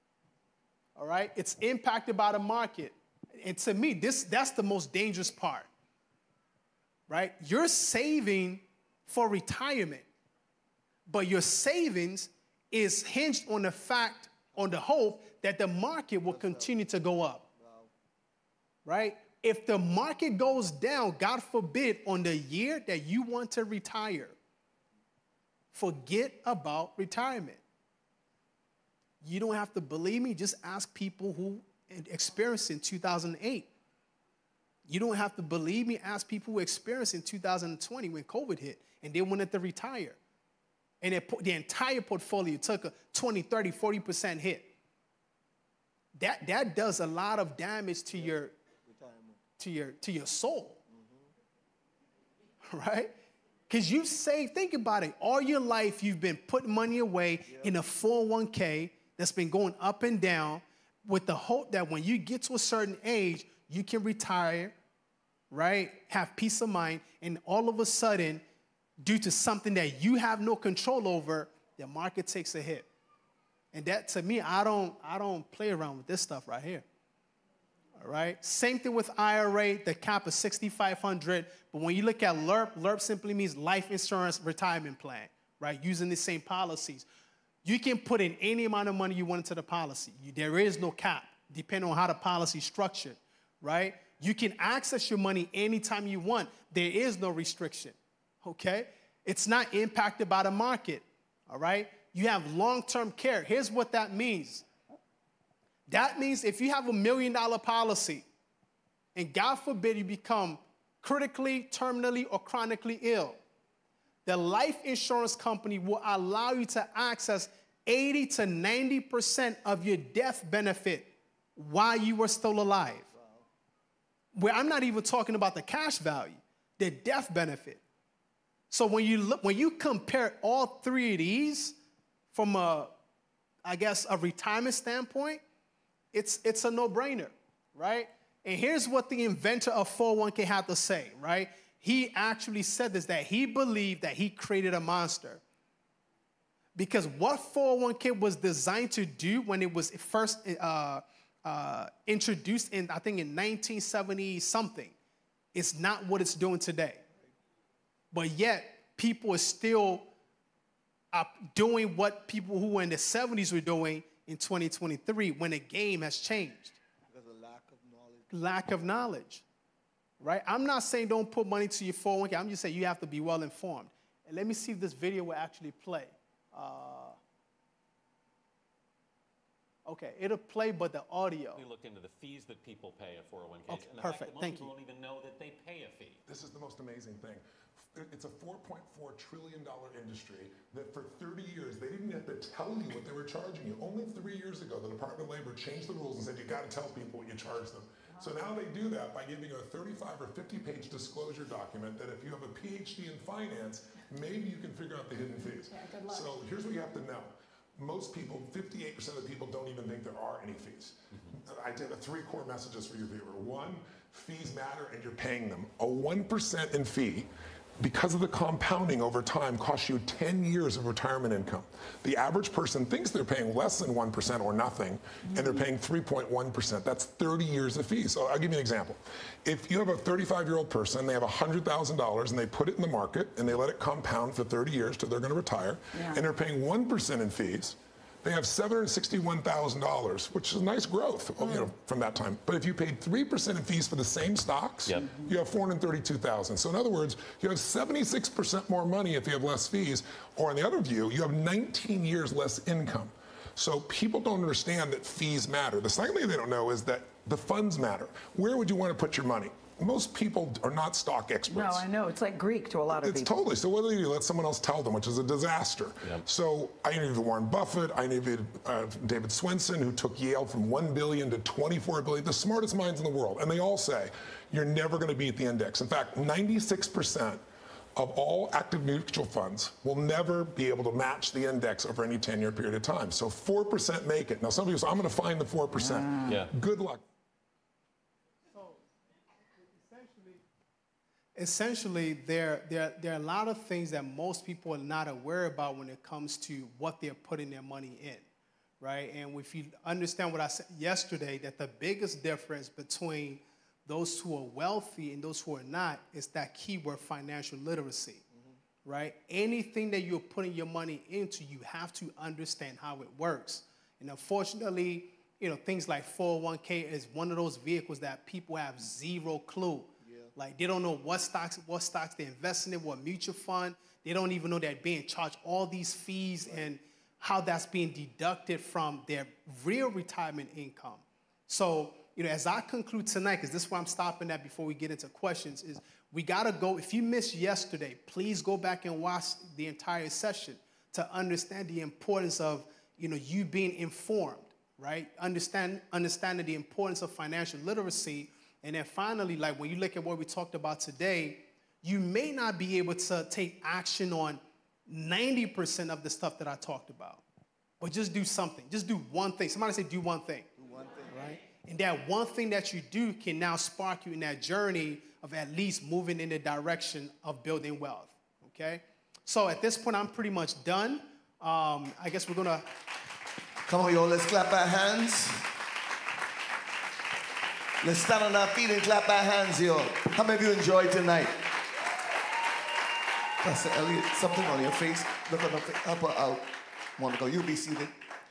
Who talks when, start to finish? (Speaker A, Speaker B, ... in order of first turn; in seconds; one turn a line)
Speaker A: 0.9-5.7
Speaker A: 7.1-10.1
Speaker A: 11.1-17.4
Speaker B: 16.2-16.8
Speaker B: 17.6-17.9
Speaker A: 18.8-24.4
Speaker A: 25.7-27.6
Speaker A: 29.2-33.7
Speaker A: 34.9-40.2
Speaker A: 41.0-44.7
Speaker A: 46.1-48.5
Speaker B: 48.8-49.4
Speaker A: 49.6-50.8
Speaker B: 50.9-51.3
Speaker A: 52.6-53.1
Speaker A: 53.7-64.7
Speaker A: 65.5-68.4
Speaker A: 69.0-72.9
Speaker A: 73.7-76.8
Speaker A: 78.0-87.0
Speaker A: 87.6-104.7
Speaker A: 105.9-108.2
Speaker A: 109.1-113.4
Speaker A: 114.2-123.1
Speaker B: 123.1-123.5
Speaker A: 124.3-127.8
Speaker A: 128.7-131.8
Speaker A: 132.3-132.9
Speaker A: 133.6-135.4
Speaker A: 136.1-145.4
Speaker A: 146.8-154.9
Speaker A: 155.5-157.0
Speaker A: 158.1-160.1
Speaker A: 161.1-166.8
Speaker B: 167.0-168.3
Speaker A: 168.3-169.4
Speaker A: 170.2-177.2
Speaker A: 179.9-181.6
Speaker C: 181.5-186.2
Speaker A: 183.7-184.7
Speaker D: 186.2-261.9
Speaker E: 205.8-206.3
Speaker E: 225.3-225.6
Speaker E: 235.9-236.2
Speaker E: 241.4-241.7
Speaker C: 244.8-245.1
Speaker E: 261.5-263.5
Speaker D: 262.9-277.4
Speaker D: 277.9-287.0
Speaker E: 285.9-286.2
Speaker A: 288.5-288.8
Speaker A: 289.7-290.4
Speaker A: 291.4-298.2
Speaker A: 298.8-308.2
Speaker A: 308.8-357.2
Speaker A: 357.8-360.5
Speaker B: 360.6-361.2
Speaker A: 361.1-372.7
Speaker B: 373.6-375.6
Speaker B: 377.8-381.5
Speaker B: 383.4-387.9